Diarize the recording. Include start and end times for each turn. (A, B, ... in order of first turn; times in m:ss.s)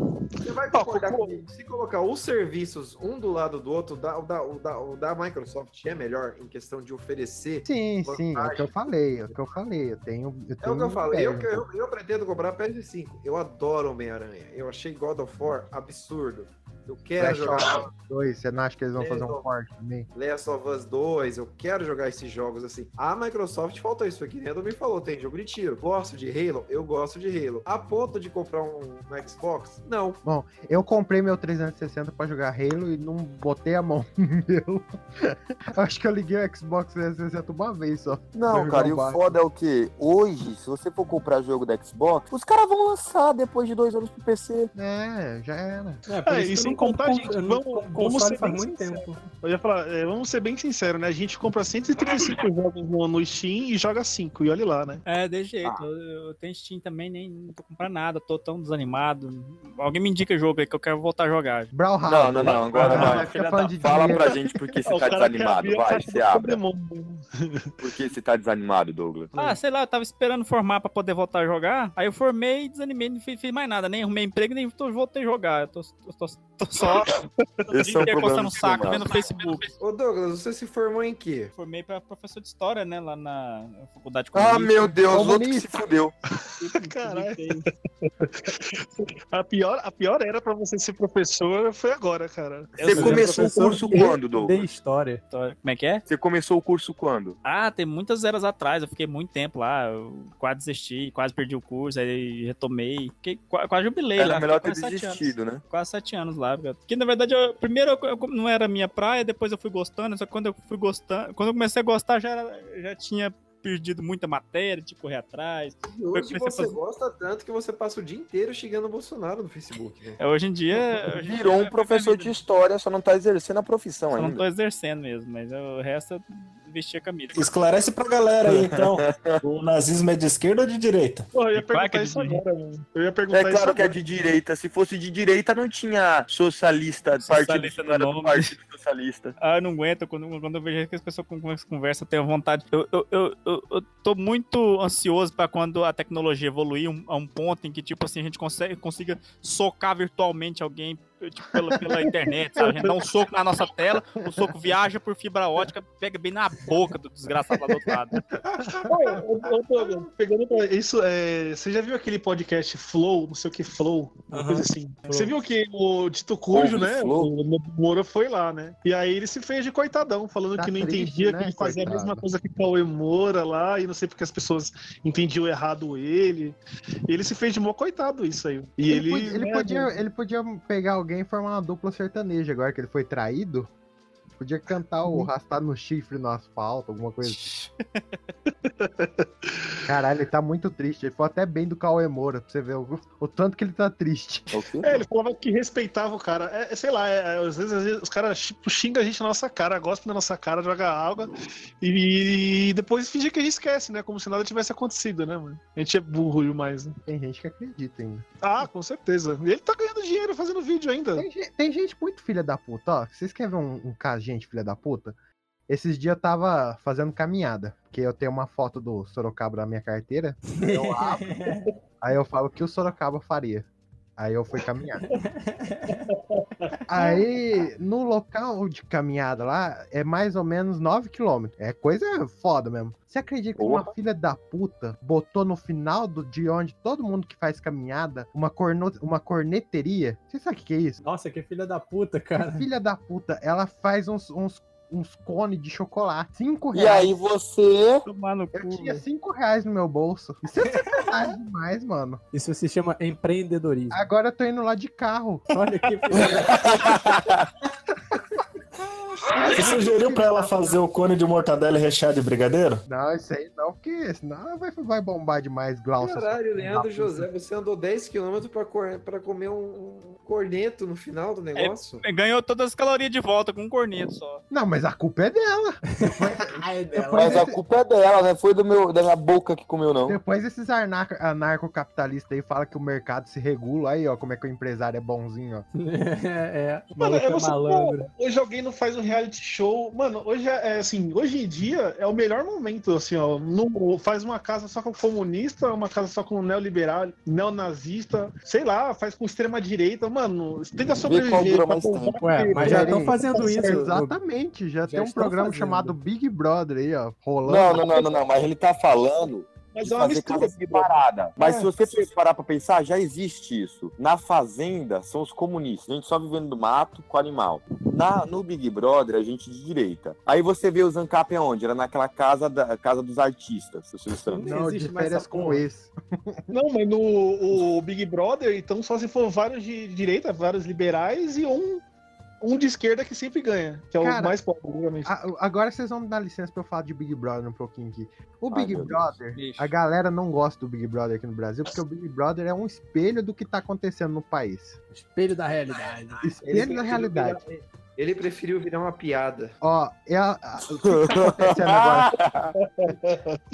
0:00.4-0:09.4 A
0:00.7-0:01.3 B
0:07.7-0:11.6 C
0:10.6-0:17.9 A
0:17.2-0:20.1 C
0:19.0-0:19.5 A
0:20.1-0:30.2 A
0:30.2-0:39.3 C
0:38.3-0:44.7 D
0:44.8-0:46.0 C
0:46.1-0:49.2 E
0:46.2-0:55.0 B
0:55.0-1:01.7 F
1:01.7-1:04.3 C
1:02.0-1:06.6 D
1:02.4-1:03.5 B
1:04.8-1:07.7 B
1:07.8-1:09.3 D
1:09.4-1:17.1 F
1:17.6-1:18.2 B
1:17.7-1:19.2 D
1:17.8-1:19.7 F
1:18.9-1:19.4 B
1:19.8-1:21.5 A
1:21.6-1:25.1 F
1:24.3-1:26.1 D
1:25.1-1:25.6 C
1:26.3-1:34.2 B
1:26.6-1:27.6 F
1:32.8-1:34.6 D
1:32.9-1:35.2 E
1:35.3-1:36.0 F
1:36.1-1:37.4 D
1:37.4-1:56.8 F
1:44.2-1:45.6 D
1:55.9-2:00.2 A
2:00.2-2:02.3 F
2:01.2-2:04.4 D
2:04.2-2:07.4 F
2:07.3-2:11.3 G
2:08.4-2:09.4 D
2:11.3-2:13.9 B
2:11.6-2:12.4 F
2:13.3-2:19.3 D
2:17.2-2:18.5 F
2:19.4-2:38.2 F
2:32.1-2:33.0 B
2:38.6-2:39.0 C
2:38.8-2:56.6 B
2:44.3-2:45.3 E
2:46.5-2:47.3 D
2:50.6-2:52.2 C
2:57.1-2:59.9 B
2:58.9-3:03.7 C
3:04.4-3:07.5 C
3:07.2-3:08.0 F
3:08.6-3:09.9 B
3:09.9-3:14.5 C
3:14.5-3:15.0 D
3:14.8-3:26.9 B
3:27.1-3:28.2 C
3:28.4-3:31.2 B
3:31.2-3:35.1 C
3:35.7-3:41.4 C
3:40.5-3:41.6 E
3:42.0-3:43.6 C
3:44.2-3:45.0 C
3:45.1-3:46.0 E
3:45.9-3:47.2 B
3:46.9-4:01.0 C
3:53.6-3:53.9 D
4:01.0-4:02.6 E
4:02.4-4:07.1 C
4:06.7-4:08.0 D
4:08.0-4:09.0 F
4:08.5-4:12.2 C
4:12.3-4:14.0 E
4:13.9-4:15.4 C
4:15.5-4:16.8 E
4:16.6-4:17.4 D
4:19.4-4:20.8 C
4:19.5-4:22.8 G
4:22.9-4:27.3 C
4:26.0-4:32.0 A
4:31.6-4:34.4 F
4:34.5-4:37.6 C
4:36.0-4:37.5 E
4:37.2-4:40.2 D
4:40.1-4:45.6 C
4:45.7-4:48.1 E
4:47.0-5:03.9 B
5:01.0-5:02.2 D
5:02.2-5:04.1 E
5:02.6-5:08.0 C
5:04.8-5:06.0 E
5:07.4-5:24.5 D
5:09.7-5:12.0 B
5:24.3-5:25.6 E
5:24.4-5:26.4 C
5:26.5-5:31.8 B
5:32.4-5:35.1 B
5:34.0-5:34.4 C
5:35.1-5:44.8 C
5:38.5-5:39.0 D
5:39.4-5:39.7 F
5:44.9-5:46.2 E
5:46.2-5:47.4 C
5:46.4-5:49.5 A
5:49.6-5:52.1 C
5:50.9-5:52.5 D
5:52.6-5:53.4 B